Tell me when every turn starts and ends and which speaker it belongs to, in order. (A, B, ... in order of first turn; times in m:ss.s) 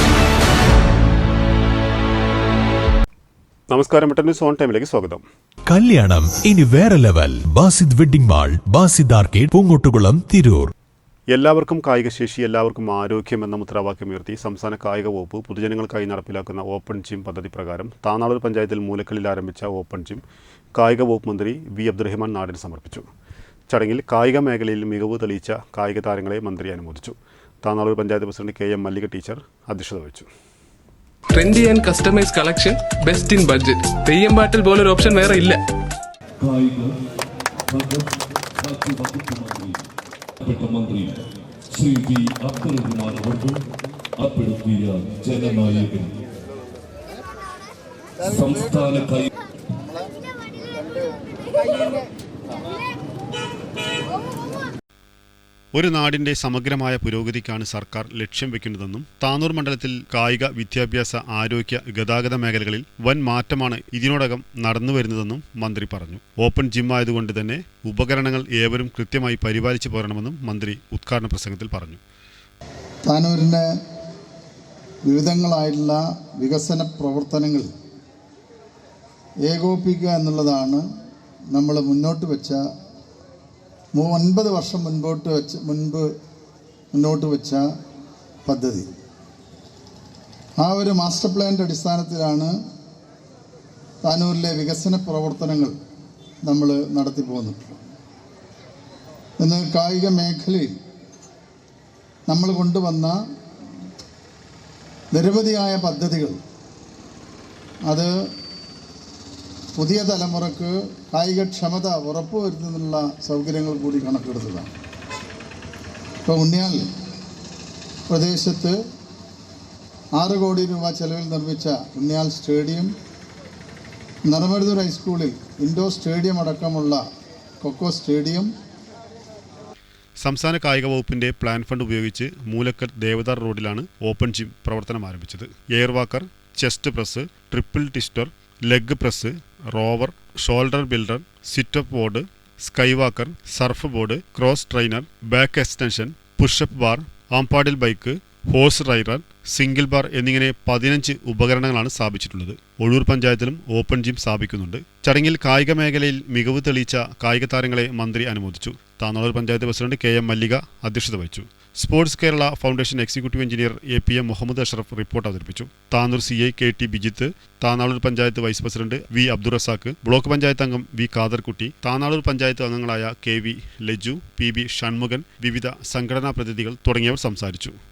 0:03.7-0:05.2 A
0:05.7-0:10.7 B
0:11.3-0:20.2 A
0:20.8-0:23.1 A
0:23.7-0:30.3 A
0:31.4-0:35.6 C
0:36.4-0:37.0 D
0:37.7-0:39.9 D
0:40.4-0:43.6 D
0:44.2-0:46.2 D
0:48.2-0:49.3 D
0:55.7-1:12.0 A
1:13.0-1:13.7 E
1:15.1-1:17.7 E
1:19.5-1:20.8 E
1:21.5-1:22.6 E
1:23.9-1:26.1 E
1:26.9-1:27.6 E
1:28.4-1:28.9 E
1:30.6-1:32.6 E
1:34.0-1:35.7 E
1:36.4-1:37.8 E
1:39.4-1:40.8 E
1:42.3-1:43.2 E
1:45.1-1:46.4 E
1:47.9-1:48.2 E
1:49.8-1:54.7 E
1:56.2-1:56.9 E
1:58.1-1:58.8 E
2:00.2-2:02.9 E
2:04.3-2:07.0 E
2:07.6-2:08.5 E
2:10.2-2:57.8 A